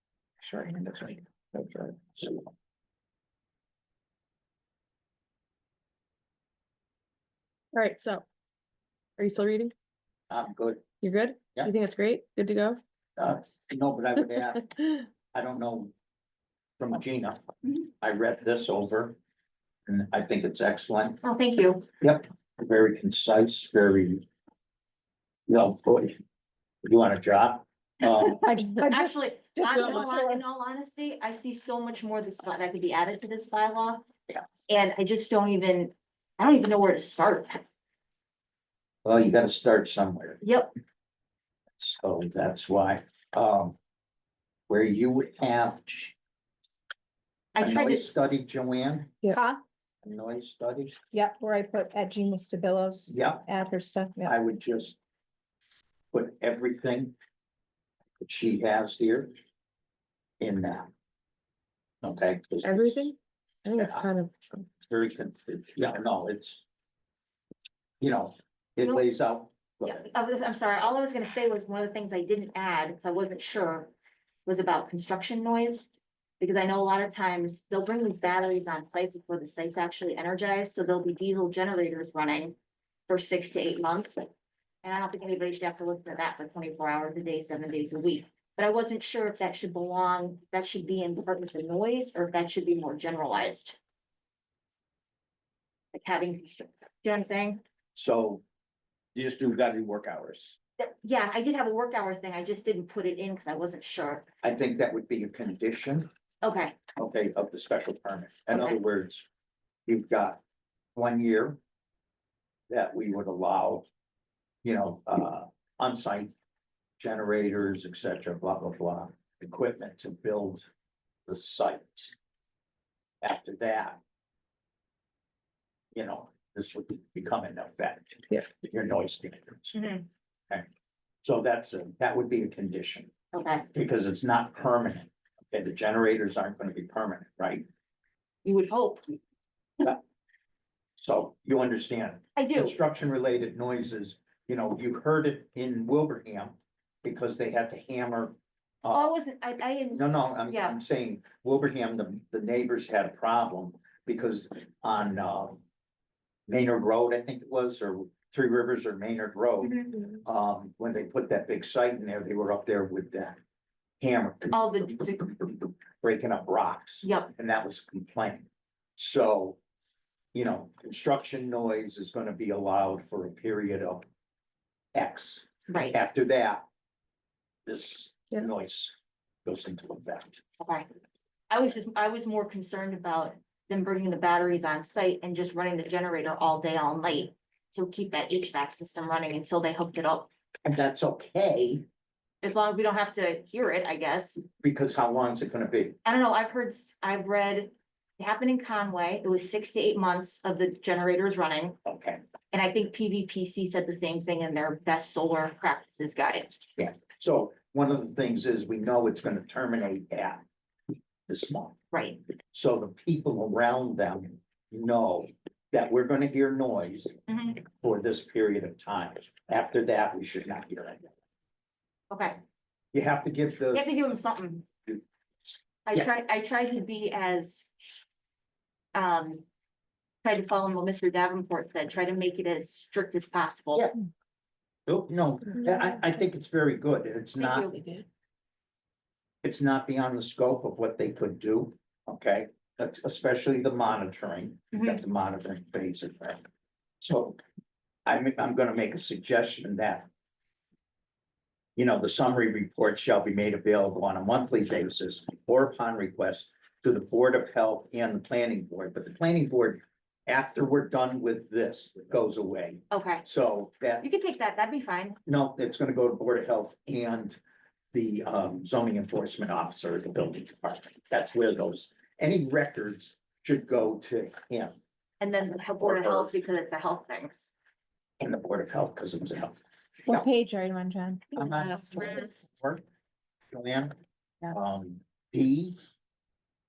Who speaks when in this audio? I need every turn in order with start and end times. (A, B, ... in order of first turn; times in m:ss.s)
0:00.4-0:02.5 A
0:07.7-0:08.2 A
0:09.2-0:09.7 A
0:10.3-0:10.8 B
0:11.0-0:12.8 A
0:13.2-0:14.7 B
0:15.3-0:15.9 B
0:16.8-0:17.4 B
0:18.0-0:19.2 B
0:19.9-0:21.2 B
0:21.2-0:21.9 C
0:22.0-0:24.2 B
0:25.5-0:26.2 B
0:26.8-0:28.4 B
0:28.4-0:30.4 D
0:28.8-0:34.0 C
0:29.7-0:30.1 A
0:34.7-0:37.6 C
0:39.0-0:40.4 B
0:40.4-0:40.7 C
0:41.8-0:43.8 B
0:44.7-0:46.1 B
0:47.5-0:48.0 C
0:47.6-0:49.2 B
0:49.3-0:49.6 D
0:50.0-0:51.0 B
0:51.1-0:54.4 D
0:53.1-0:53.5 B
0:54.2-0:55.0 B
0:56.1-0:57.1 B
0:58.2-0:59.3 B
1:00.4-1:00.9 B
1:02.0-1:03.1 B
1:02.6-1:04.3 A
1:03.8-1:04.1 B
1:04.8-1:06.6 B
1:08.0-1:10.1 B
1:09.8-1:13.9 C
1:14.4-1:22.6 C
1:23.1-1:24.3 C
1:24.8-1:33.8 C
1:35.9-1:37.6 C
1:37.9-1:38.4 B
1:39.1-1:40.6 B
1:40.8-1:44.2 C
1:44.4-1:46.1 B
1:46.4-1:46.8 C
1:47.0-1:49.2 B
1:48.5-1:48.8 C
1:49.9-1:50.4 B
1:50.9-1:51.6 B
1:52.7-1:53.8 B
1:54.6-1:56.3 B
1:57.0-2:00.7 B
2:01.3-2:02.1 B
2:03.2-2:04.0 B
2:05.9-2:09.9 B
2:09.7-2:10.0 C
2:11.2-2:13.1 B
2:13.3-2:13.6 C
2:13.7-2:17.6 B
2:18.4-2:19.1 C
2:21.0-2:29.1 B
2:22.4-2:22.8 C
2:28.9-2:30.8 C
2:29.9-2:35.6 B
2:36.5-2:43.4 B
2:39.6-2:40.1 C
2:44.0-2:49.6 B
2:44.5-2:45.4 C
2:47.0-2:47.3 C
2:50.3-2:54.0 B
2:54.9-2:56.6 B
2:55.7-2:56.0 C
2:57.6-2:58.9 B
2:59.4-3:00.4 B
3:00.6-3:00.9 C
3:01.5-3:10.3 C
3:10.6-3:11.8 B
3:12.4-3:14.4 C
3:14.6-3:16.0 B
3:16.0-3:21.8 C
3:21.8-3:22.2 B
3:22.5-3:26.6 C
3:26.8-3:30.4 B
3:31.3-3:31.7 B
3:31.9-3:32.2 C
3:32.5-3:41.0 B
3:37.3-3:37.6 C
3:42.1-3:42.4 C
3:42.9-3:43.8 B
3:43.7-3:44.7 C
3:45.8-3:47.7 C
3:48.9-3:49.4 C
3:50.2-3:53.9 C
3:54.9-3:57.7 B
3:57.4-3:58.0 C
3:59.4-4:06.4 B
4:04.7-4:05.0 C
4:07.0-4:07.4 B
4:08.0-4:10.1 B
4:11.8-4:24.0 B
4:22.9-4:23.2 C
4:24.0-4:25.2 C
4:25.2-4:27.4 B
4:27.9-4:34.8 B
4:35.2-4:37.4 C
4:35.8-4:36.4 B
4:38.2-4:39.6 B
4:40.0-4:42.1 D
4:41.4-4:42.5 C
4:41.4-4:42.8 B
4:43.5-4:43.9 B
4:44.5-4:45.8 B